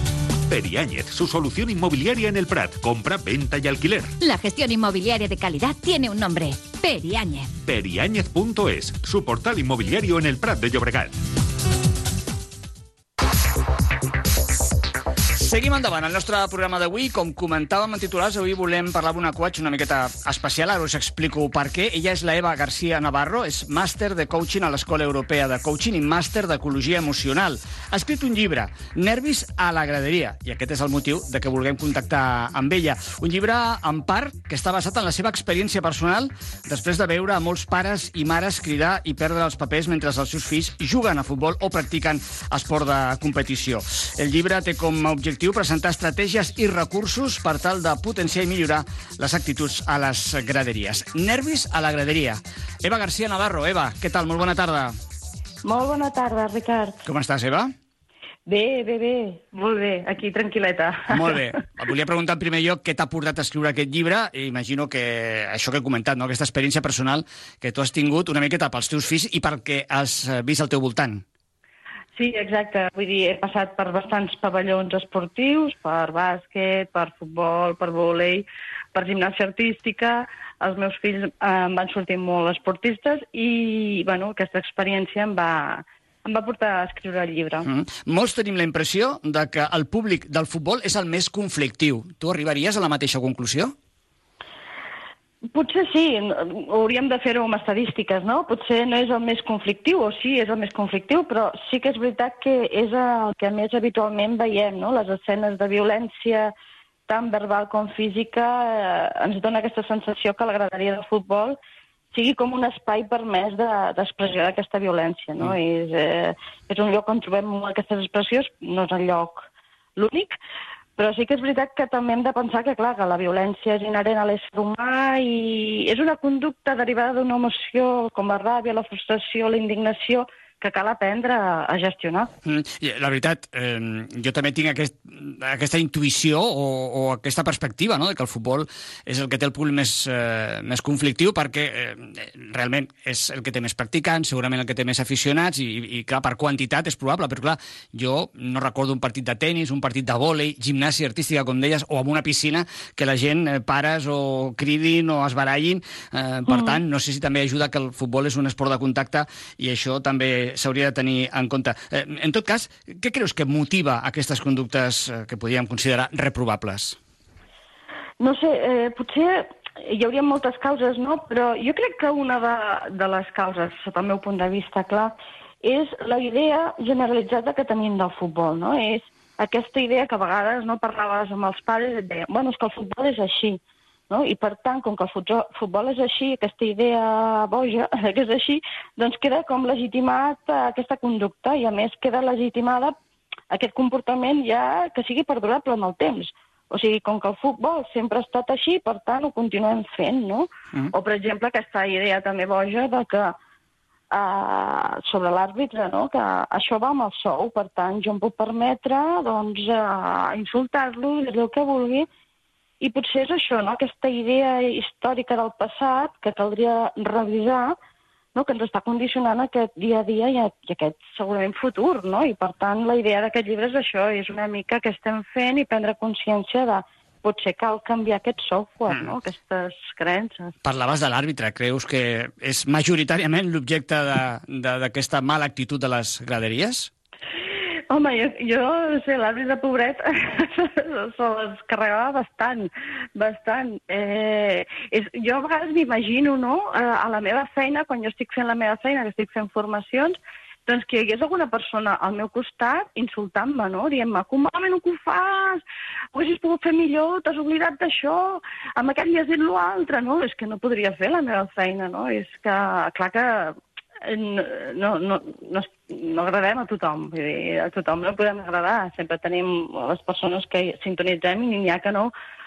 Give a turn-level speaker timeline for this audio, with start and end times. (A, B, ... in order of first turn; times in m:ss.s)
0:00.5-0:04.1 A
0:04.2-0:07.5 B
0:07.6-0:11.1 A
0:15.4-0:55.0 C
0:55.6-0:57.0 D
0:57.1-0:57.7 C
0:58.5-1:01.4 D
1:01.1-1:11.2 C
1:12.2-1:27.7 D
1:27.6-1:33.8 C
1:35.5-1:46.5 D
1:47.1-1:51.6 D
1:52.1-2:00.3 D
2:01.0-2:12.3 D
2:12.4-2:47.0 C
2:48.2-3:13.0 D
3:13.5-3:23.4 D
3:24.1-3:32.1 D
3:32.8-3:37.8 D
3:38.4-3:50.5 D
3:50.6-3:56.9 C
3:57.9-4:15.6 D
4:16.1-4:32.1 D